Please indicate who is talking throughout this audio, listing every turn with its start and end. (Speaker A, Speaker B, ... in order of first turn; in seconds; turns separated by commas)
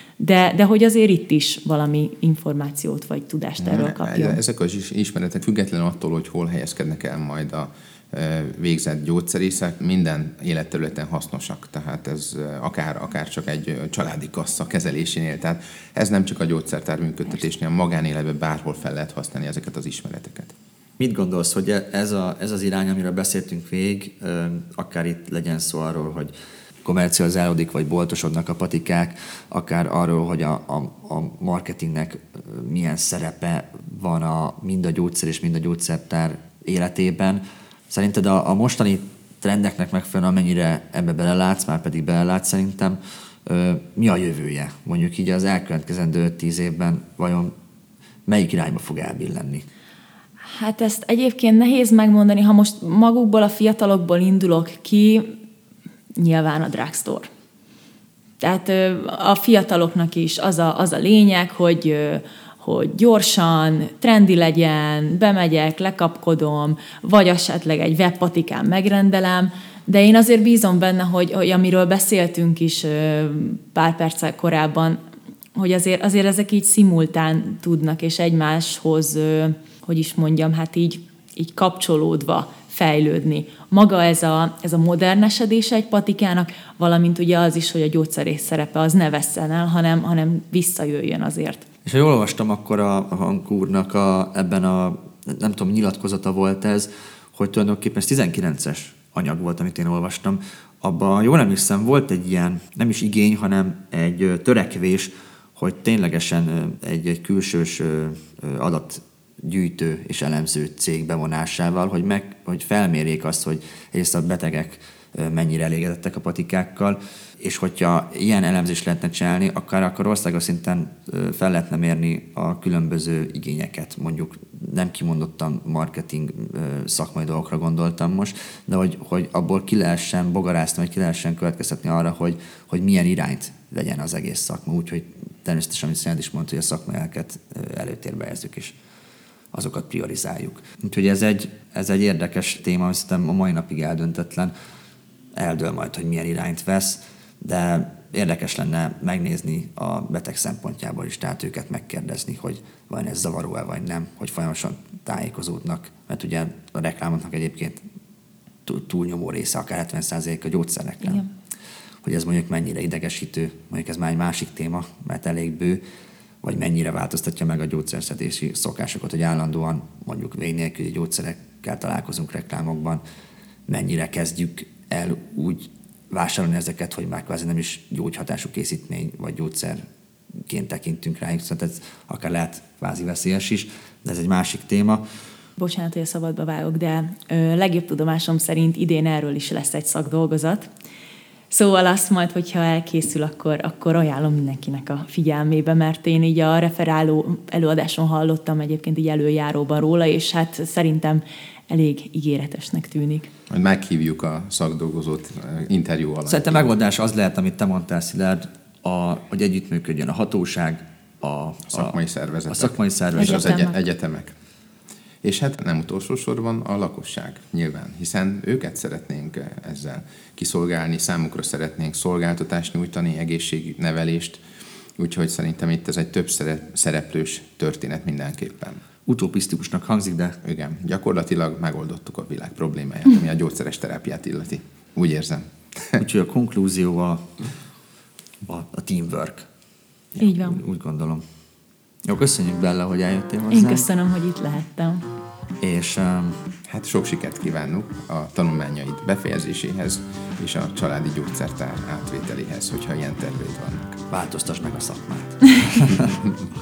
Speaker A: 0.2-4.4, Speaker B: 3.6-20.6, Speaker C: 21.0-26.3, Speaker C: 26.9-47.5, Speaker C: 48.3-49.7, Speaker A: 50.4-55.4, Speaker A: 56.2-57.3, Speaker A: 58.4-75.0, Speaker A: 75.5-91.7, Speaker C: 91.8-138.8, Speaker C: 139.5-144.5, Speaker C: 145.3-157.8, Speaker C: 158.7-161.3, Speaker C: 162.0-165.8, Speaker C: 166.4-173.0, Speaker C: 173.7-179.8, Speaker C: 180.5-185.0, Speaker A: 185.6-190.7, Speaker A: 191.5-203.3, Speaker B: 203.5-206.7, Speaker C: 206.3-212.0, Speaker B: 211.7-214.3, Speaker C: 212.5-213.6, Speaker A: 213.2-213.8, Speaker B: 215.2-224.4, Speaker B: 225.0-228.8, Speaker C: 229.1-230.4, Speaker B: 230.4-236.0, Speaker C: 236.0-237.4, Speaker C: 238.5-239.5, Speaker A: 240.2-240.6, Speaker C: 240.3-241.2, Speaker C: 242.1-243.9, Speaker A: 243.5-245.1, Speaker C: 245.6-246.4, Speaker B: 246.7-254.0, Speaker C: 254.1-256.2, Speaker B: 255.9-256.3